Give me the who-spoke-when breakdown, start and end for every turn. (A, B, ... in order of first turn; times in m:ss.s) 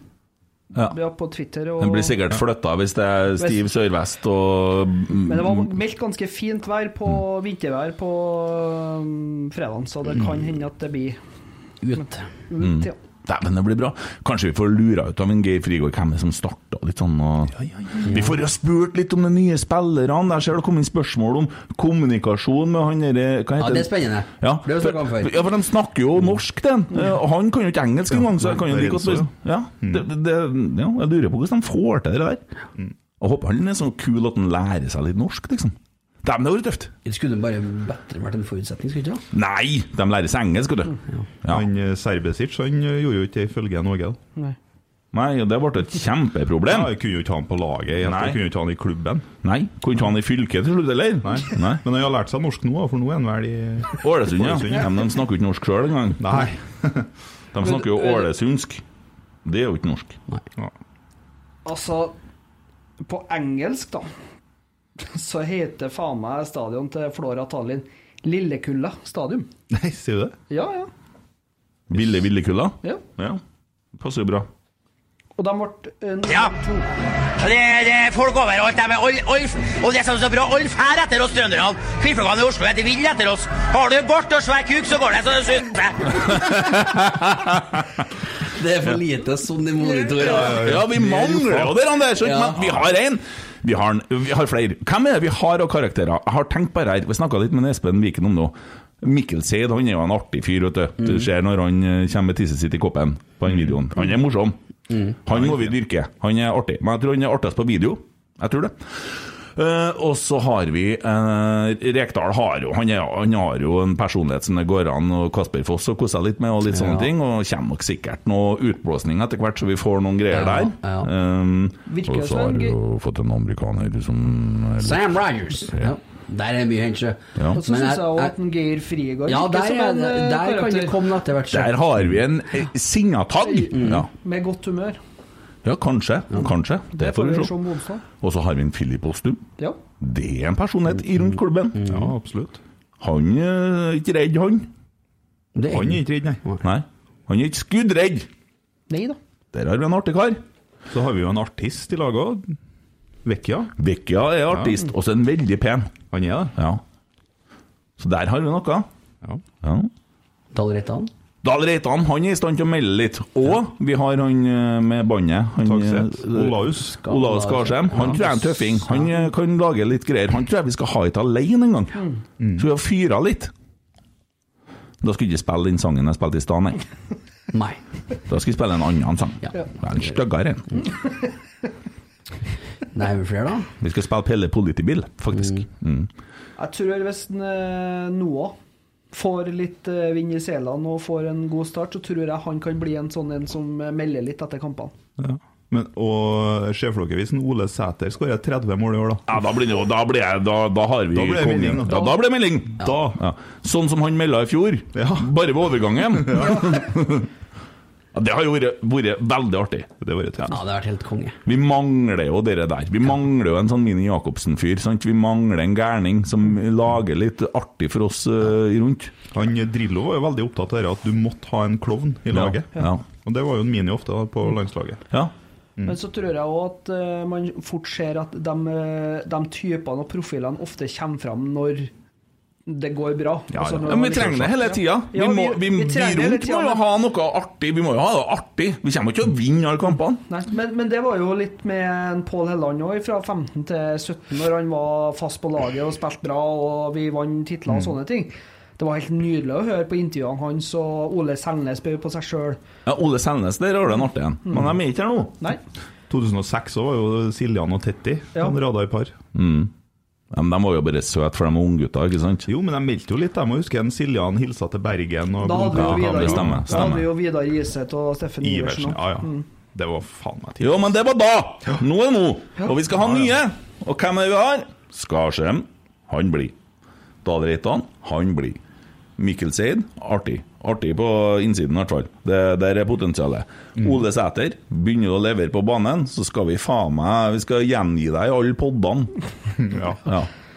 0:00.8-0:02.2 A
0:01.8-0:05.6 B
0:03.4-0:03.6 A
0:05.2-0:11.2 A
0:11.8-0:12.2 C
0:12.0-0:13.0 A
0:12.6-0:32.4 B
0:18.1-0:18.3 C
0:23.6-0:25.3 C
0:28.1-0:29.3 D
0:33.2-0:36.9 B
0:37.0-0:39.2 C
0:39.3-0:41.7 B
0:41.5-0:44.2 D
0:45.1-0:46.9 B
0:46.7-0:49.3 D
0:48.0-0:48.4 B
0:49.4-0:51.8 B
0:51.2-0:54.9 D
0:54.0-0:56.2 B
0:56.2-0:57.1 D
0:57.5-0:58.8 B
0:57.6-0:58.3 A
0:59.4-1:00.2 B
1:01.6-1:02.2 A
1:03.0-1:04.1 A
1:05.0-1:09.5 A
1:09.7-1:10.4 D
1:10.5-1:10.9 A
1:11.9-1:13.4 B
1:14.0-1:14.5 B
1:15.4-1:16.9 A
1:16.3-1:16.5 E
1:17.4-1:26.4 E
1:26.4-1:27.6 B
1:28.5-1:30.7 C
1:29.8-1:30.6 A
1:30.3-1:31.8 D
1:30.5-1:44.6 B
1:32.2-1:32.8 C
1:44.9-1:45.2 C
1:45.2-2:05.2 B
1:56.7-1:57.1 C
2:00.3-2:01.1 C
2:01.9-2:02.8 A
2:04.8-2:08.3 C
2:07.5-2:11.0 A
2:09.3-2:11.7 C
2:11.5-2:14.1 B
2:13.5-2:15.0 A
2:13.7-2:14.0 C
2:15.6-2:17.5 B
2:16.9-2:18.0 A
2:18.2-2:19.4 B
2:20.0-2:21.9 B
2:21.8-2:22.1 C
2:21.9-2:22.6 D
2:23.0-2:24.7 B
2:25.6-2:26.6 C
2:25.7-2:26.4 D
2:26.6-2:28.3 B
2:28.9-2:29.2 A
2:29.5-2:30.4 B
2:30.9-2:32.6 D
2:33.2-2:33.7 D
2:33.8-2:35.9 B
2:36.1-2:36.6 D
2:36.6-2:36.8 B
2:38.0-2:38.9 B
2:39.6-2:39.9 B
2:40.5-2:41.1 C
2:41.4-2:52.0 B
2:45.6-2:47.0 D
2:47.0-2:49.2 C
2:47.9-2:48.2 D
2:52.0-2:52.2 A
2:52.4-2:52.7 D
2:52.6-2:53.5 B
2:55.0-2:56.8 B
2:57.5-2:57.8 C
2:58.3-3:00.7 B
3:02.9-3:03.7 C
3:03.8-3:06.1 B
3:06.6-3:08.6 A
3:09.1-3:14.9 A
3:15.2-3:19.3 D
3:19.3-3:27.3 B
3:21.1-3:22.2 D
3:22.8-3:23.2 D
3:25.0-3:25.3 D
3:26.1-3:26.8 D
3:28.1-3:29.9 B
3:30.0-3:30.6 D
3:30.5-3:31.4 C
3:31.4-3:39.1 B
3:39.3-3:45.0 D
3:42.3-3:43.0 B
3:45.8-3:51.9 A
3:52.7-3:56.8 A
3:53.5-3:54.6 D
3:53.8-4:00.2 B
4:00.3-4:12.6 A
4:12.9-4:15.4 B
4:14.5-4:14.8 A
4:16.1-4:19.2 D
4:19.3-4:19.7 B
4:20.3-4:22.5 B
4:22.5-4:27.0 D
4:25.4-4:29.5 A
4:25.7-4:27.1 B
4:28.4-4:30.9 D
4:30.6-4:36.6 B
4:32.9-4:33.4 D
4:37.2-4:38.6 B
4:39.2-4:49.1 B
4:49.6-4:50.0 D